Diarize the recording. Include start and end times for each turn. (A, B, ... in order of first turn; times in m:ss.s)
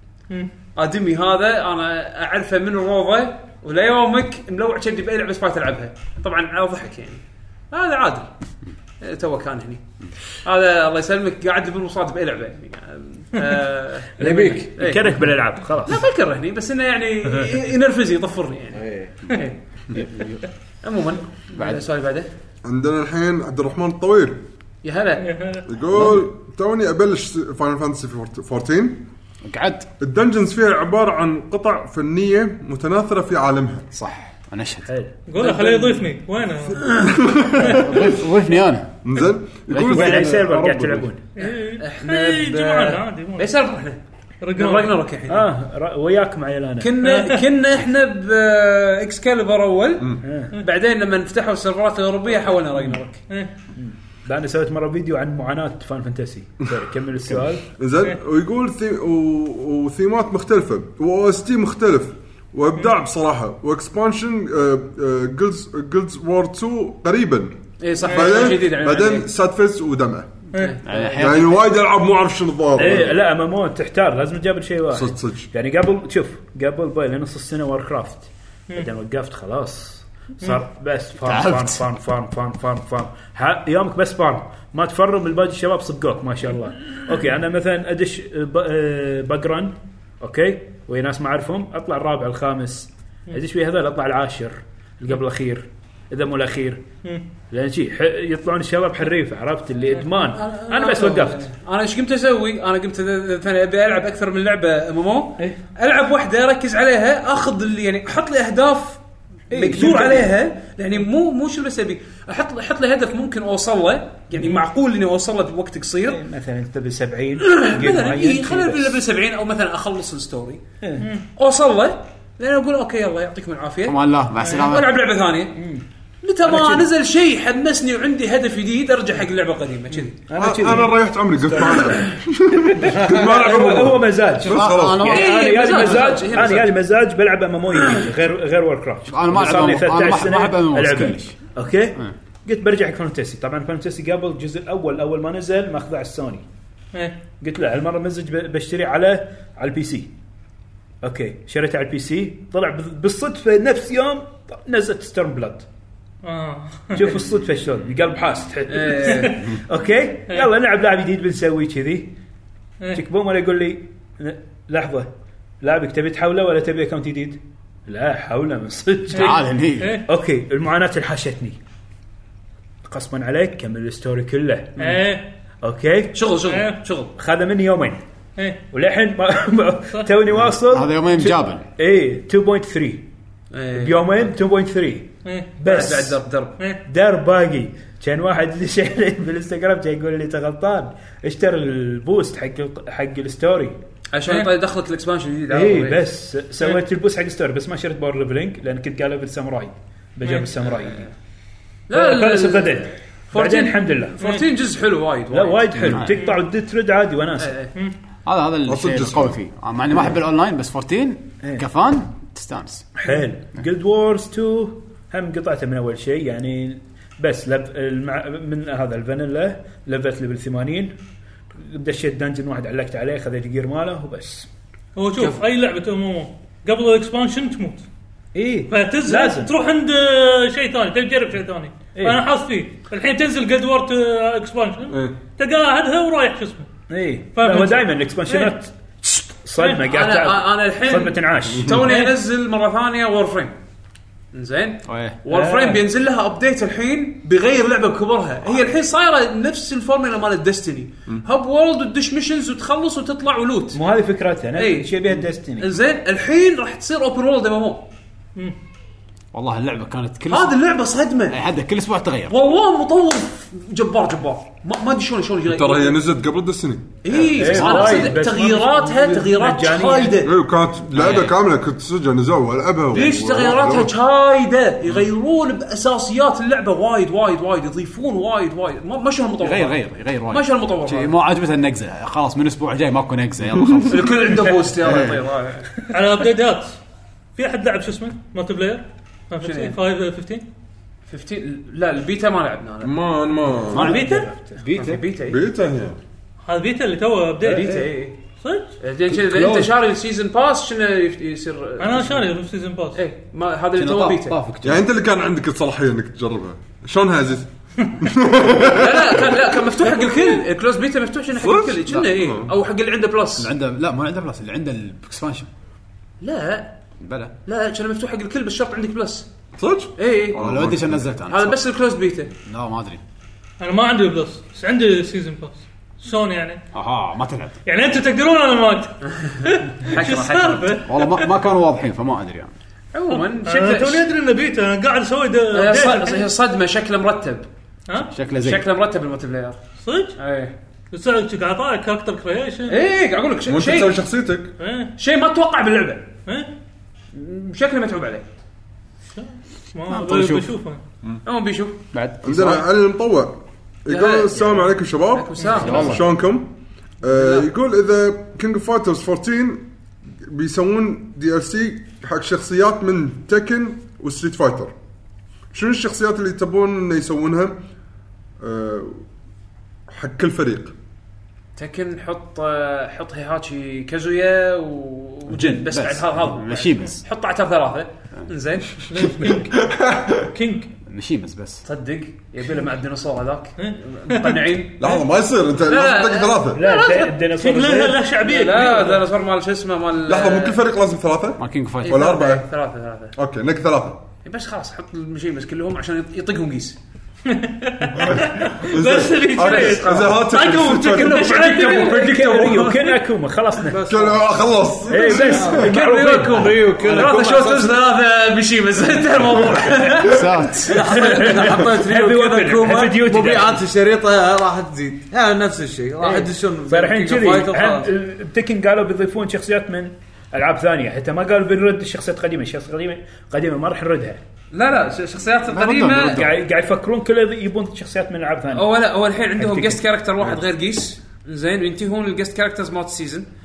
0:00.8-0:08.3 A
0:09.0-0:09.8 A
0:10.4-0:15.1 A
0:14.2-0:16.0 B
0:14.2-0:14.6 C
0:15.8-0:20.0 A
0:18.7-0:19.1 D
0:19.9-0:20.4 C
0:20.8-0:22.3 A
0:21.6-0:21.8 C
0:22.6-0:24.4 E
0:24.8-0:25.3 A
0:25.2-0:25.6 F
0:25.6-0:29.0 E
0:29.4-0:29.8 C
0:30.0-0:33.9 E
0:33.9-0:35.0 C
0:34.9-0:35.1 B
0:35.2-0:37.1 F
0:35.4-0:35.9 A
0:37.0-0:37.8 E
0:37.7-0:39.0 C
0:39.0-0:40.5 E
0:39.7-0:41.1 C
0:39.9-0:41.2 B
0:41.4-0:43.5 F
0:41.4-0:44.0 A
0:44.4-0:44.9 F
0:44.5-0:45.5 A
0:45.3-0:46.9 B
0:46.8-0:53.2 A
0:47.1-0:47.3 F
0:50.2-0:50.5 B
0:53.7-0:57.6 B
0:57.6-1:10.3 E
1:07.8-1:09.2 A
1:08.1-1:08.4 F
1:10.5-1:10.8 F
1:10.5-1:11.2 A
1:10.8-1:11.6 C
1:11.1-1:13.2 E
1:12.7-1:36.8 B
1:14.9-1:15.5 E
1:21.2-1:21.8 C
1:37.5-1:41.5 B
1:40.3-1:49.0 A
1:49.5-1:50.3 B
1:49.5-1:56.2 A
1:56.1-1:59.0 B
1:57.4-2:00.6 A
2:00.8-2:01.1 B
2:01.4-2:05.6 A
2:03.8-2:05.0 C
2:05.6-2:05.8 B
2:06.2-2:10.2 A
2:06.4-2:06.9 B
2:10.2-2:12.1 B
2:10.4-2:15.0 E
2:12.6-2:26.4 B
2:14.4-2:15.9 C
2:15.0-2:16.7 A
2:19.1-2:21.4 C
2:27.4-2:30.1 B
2:31.0-2:35.6 B
2:36.2-2:37.1 F
2:36.9-2:42.1 B
2:38.7-2:39.4 A
2:42.9-2:45.1 B
2:45.6-2:49.5 B
2:49.1-2:50.0 C
2:49.2-2:50.0 F
2:50.0-2:51.6 B
2:52.8-2:54.8 B
2:54.8-2:55.3 F
2:55.6-2:56.2 B
2:56.1-2:57.1 A
2:56.4-2:56.8 F
2:57.2-2:58.0 B
2:58.4-2:58.6 F
2:58.7-3:03.0 B
3:00.3-3:01.6 C
3:03.5-3:04.1 A
3:03.7-3:06.2 B
3:05.2-3:05.5 F
3:05.7-3:06.6 A
3:06.8-3:13.8 B
3:14.1-3:16.1 A
3:15.5-3:21.0 B
3:20.7-3:21.1 A
3:21.9-3:26.0 A
3:21.9-3:24.2 B
3:25.3-3:27.5 B
3:25.8-3:26.2 C
3:26.1-3:26.4 F
3:27.4-3:27.7 A
3:28.2-3:32.9 C
3:28.7-3:29.4 E
3:33.0-3:40.9 B
3:41.6-3:44.5 B
3:45.0-3:47.8 F
3:48.3-3:49.5 B
3:48.7-3:56.7 F
3:52.0-3:52.2 B
3:56.9-4:01.9 B
3:57.3-3:58.5 F
3:59.8-4:03.5 A
4:01.8-4:02.1 F
4:04.3-4:13.8 A
4:04.8-4:05.2 C
4:05.3-4:05.8 B
4:13.7-4:15.7 B
4:14.5-4:15.0 A
4:15.6-4:17.9 A
4:19.3-4:20.5 C
4:20.3-4:21.4 A
4:21.3-4:22.4 C
4:22.3-4:26.0 A
4:25.4-4:27.1 E
4:27.0-4:30.3 A
4:27.4-4:30.2 B
4:27.5-4:28.2 C
4:30.2-4:33.9 E
4:30.9-4:31.3 C
4:32.9-4:39.8 A
4:39.4-4:45.2 C
4:40.3-4:41.1 A
4:43.9-4:45.7 A
4:45.9-4:46.8 F
4:47.4-4:50.4 F
4:49.4-4:49.8 A
4:51.1-4:53.0 A
4:52.8-4:53.9 E
4:53.7-4:54.7 B
4:53.7-4:55.0 C
4:53.9-4:54.2 F
4:54.7-4:55.4 A
4:55.2-4:56.0 E
4:56.4-4:57.8 F
4:57.5-4:58.2 A
4:57.5-4:57.9 B
4:58.4-4:58.7 F
4:58.8-5:02.3 A
4:59.1-4:59.7 C
5:01.8-5:03.0 F
5:03.0-5:04.3 A
5:03.8-5:04.8 C
5:04.6-5:09.6 E
5:08.6-5:13.5 A
5:11.3-5:12.5 E
5:13.4-5:15.5 C
5:16.2-5:16.7 A
5:17.0-5:17.3 C
5:17.4-5:19.3 A
5:19.6-5:21.1 E
5:20.0-5:20.4 A
5:20.3-5:21.6 C
5:21.3-5:22.3 A
5:22.4-5:23.0 C
5:23.6-5:26.6 F
5:26.7-5:27.6 C
5:27.6-5:31.3 F
5:29.2-5:30.8 A
5:30.8-5:32.5 C
5:32.9-5:34.1 A
5:33.1-5:36.3 F
5:35.5-5:37.4 A
5:38.0-5:38.6 C
5:38.3-5:39.6 A
5:39.8-5:40.2 F
5:40.2-5:40.5 A
5:40.9-5:42.8 F
5:42.7-5:44.0 A
5:43.5-5:44.5 E
5:44.6-5:44.9 F
5:45.0-5:46.0 A
5:47.1-5:48.2 A
5:49.1-5:50.8 F
5:49.9-5:50.5 C
5:51.2-5:51.8 A
5:51.9-5:52.7 C
5:52.2-5:56.5 E
5:53.9-5:56.0 A
5:55.6-5:56.0 C
5:57.0-6:04.7 E
5:57.1-5:57.5 A
6:05.5-6:07.6 E
6:08.4-6:09.0 E
6:09.9-6:10.7 E
6:11.6-6:19.4 A
6:15.3-6:17.0 C
6:18.9-6:19.4 F
6:19.4-6:20.2 E
6:20.8-6:21.6 C
6:21.6-6:25.0 A
6:23.6-6:24.4 F
6:24.8-6:26.6 E
6:25.6-6:27.0 A
6:26.5-6:28.0 B
6:26.7-6:29.0 F
6:28.2-6:30.6 A
6:30.0-6:32.5 E
6:31.4-6:32.0 C
6:31.8-6:33.1 A
6:33.2-6:34.0 E
6:34.2-6:36.8 A
6:37.3-6:42.2 F
6:38.0-6:41.4 E
6:39.3-6:40.3 A
6:40.9-6:43.0 A
6:41.5-6:43.8 B
6:43.6-6:45.7 D
6:43.8-6:45.7 E
6:44.9-6:46.6 B
6:45.5-6:51.6 A
6:46.3-6:47.8 D
6:50.0-6:50.8 C
6:50.1-6:57.9 D
6:50.9-6:53.6 B
6:56.0-7:04.2 B
7:04.5-7:06.3 A
7:05.5-7:06.3 C
7:06.0-7:08.7 B
7:08.5-7:13.3 A
7:09.4-7:09.8 B